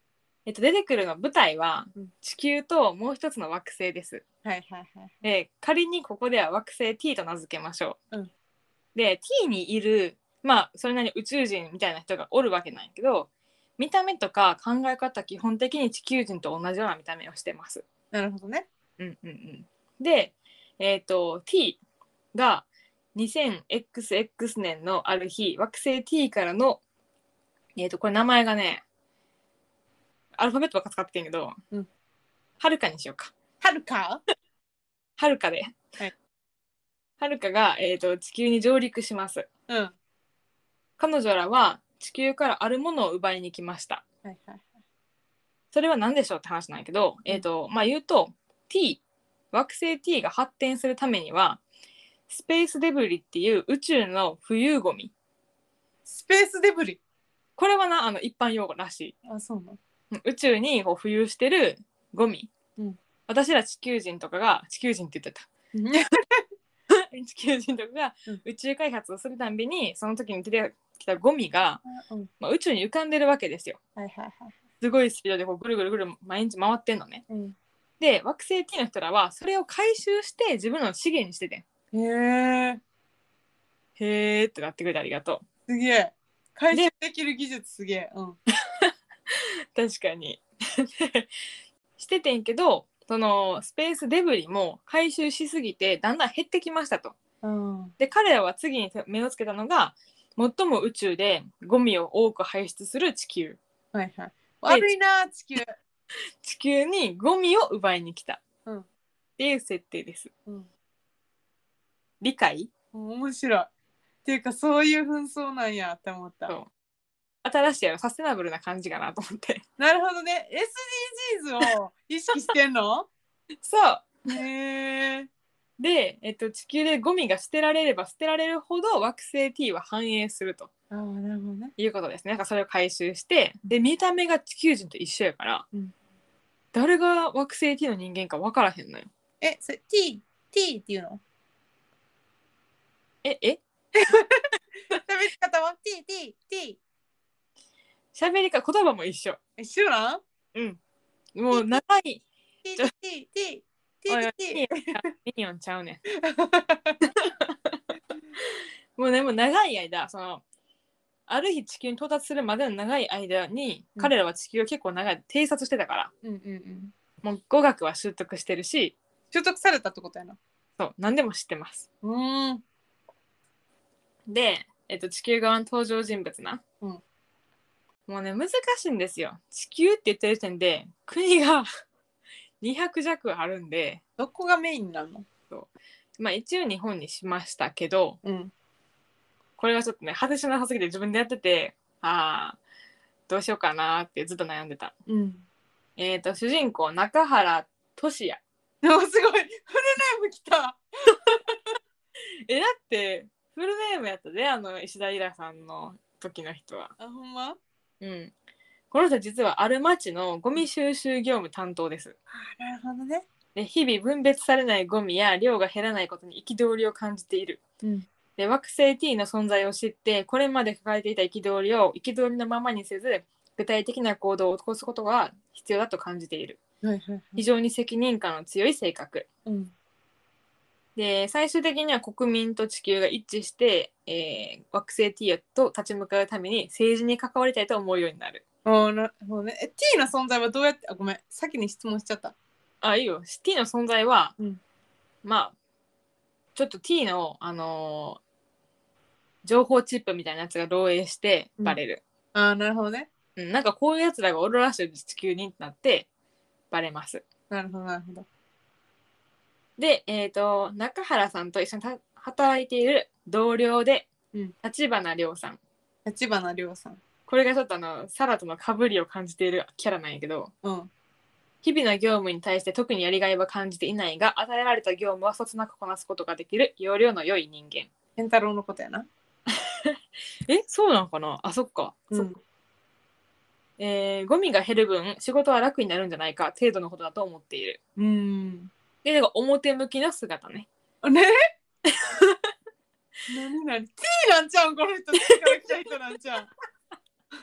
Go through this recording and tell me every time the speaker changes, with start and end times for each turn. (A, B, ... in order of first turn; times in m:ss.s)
0:00.4-0:04.2 A
0:04.4-0:05.2 B
0:05.2-0:08.0 A
0:08.9-0:17.8 A
0:18.1-0:18.7 B
0:19.0-0:21.8 A
0:22.3-0:26.8 A
0:27.8-0:28.8 A
0:30.4-0:31.6 A
0:32.6-0:33.3 A
0:33.6-0:34.2 B
0:35.2-0:35.9 A
0:37.2-0:39.5 A
0:39.7-0:39.9 B
0:41.0-0:44.0 A
0:44.2-0:44.7 B
0:45.7-0:49.0 A
0:49.5-0:51.6 A
0:52.3-0:55.1 A
0:56.0-0:57.0 B
0:57.6-0:59.1 A
0:59.2-0:59.8 B
1:00.1-1:02.5 A
1:03.3-1:05.5 A
1:05.7-1:06.4 B
1:06.9-1:11.8 A
1:11.8-1:12.3 B
1:12.4-1:13.8 A
1:14.0-1:14.5 B
1:14.8-1:17.2 A
1:17.3-1:17.6 B
1:18.0-1:21.6 A
1:21.9-1:22.8 B
1:24.0-1:25.4 A
1:25.7-1:28.4 B
1:28.8-1:31.3 A
1:32.0-1:37.2 A
1:37.4-1:37.9 B
1:38.0-1:43.6 A
1:43.9-1:45.7 B
1:46.4-1:48.4 A
1:49.4-1:50.3 A
1:52.2-1:52.7 A
1:52.9-1:53.7 B
1:54.2-1:56.5 B
1:57.4-1:59.6 A
1:59.8-2:03.1 B
2:03.6-2:04.2 A
2:04.3-2:05.3 B
2:05.8-2:10.7 A
2:10.9-2:11.7 B
2:11.8-2:15.6 A
2:16.7-2:19.1 A
2:19.4-2:21.2 B
2:23.2-2:23.6 A
2:23.9-2:26.8 B
2:28.1-2:29.4 A
2:29.6-2:30.2 B
2:30.5-2:30.8 A
2:31.3-2:32.2 A
2:31.5-2:31.8 B
2:32.6-2:34.7 B
2:34.1-2:36.0 A
2:36.1-2:37.0 B
2:37.0-2:37.8 A
2:38.4-2:40.4 A
2:41.3-2:46.1 A
2:46.2-2:46.9 B
2:47.2-2:49.0 A
2:49.3-2:50.4 B
2:50.8-2:51.8 A
2:52.0-2:52.6 B
2:54.3-2:56.6 A
2:58.1-3:01.7 A
3:02.6-3:04.0 A
3:04.2-3:05.2 B
3:05.5-3:08.2 A
3:08.2-3:08.5 B
3:09.6-3:12.6 A
3:13.3-3:14.9 A
3:15.1-3:15.4 B
3:16.0-3:18.4 A
3:18.8-3:21.7 B
3:22.5-3:26.9 A
3:27.0-3:27.6 B
3:28.0-3:28.3 A
3:28.9-3:32.2 A
3:32.3-3:33.2 B
3:33.5-3:37.6 A
3:37.8-3:38.1 B
3:38.4-3:46.6 A
3:46.8-3:47.4 B
3:47.4-3:49.2 A
3:49.4-3:49.7 B
3:51.0-3:58.4 A
3:58.6-4:02.3 B
4:02.8-4:04.3 A
4:05.2-4:05.5 A
4:06.5-4:08.2 A
4:09.4-4:12.0 A
4:12.3-4:13.1 B
4:13.4-4:16.1 A
4:16.7-4:17.2 A
4:17.5-4:18.2 B
4:19.8-4:24.1 A
4:24.6-4:25.6 A
4:26.0-4:27.0 B
4:27.3-4:30.5 A
4:30.6-4:30.9 B
4:31.6-4:37.9 A
4:38.2-4:39.1 B
4:39.6-4:40.0 A
4:40.5-4:42.3 A
4:42.1-4:42.4 B
4:43.8-4:47.8 A
4:48.0-4:48.7 B
4:49.0-4:50.7 A
4:51.0-4:51.3 B
4:51.9-4:52.4 A
4:53.3-4:56.5 B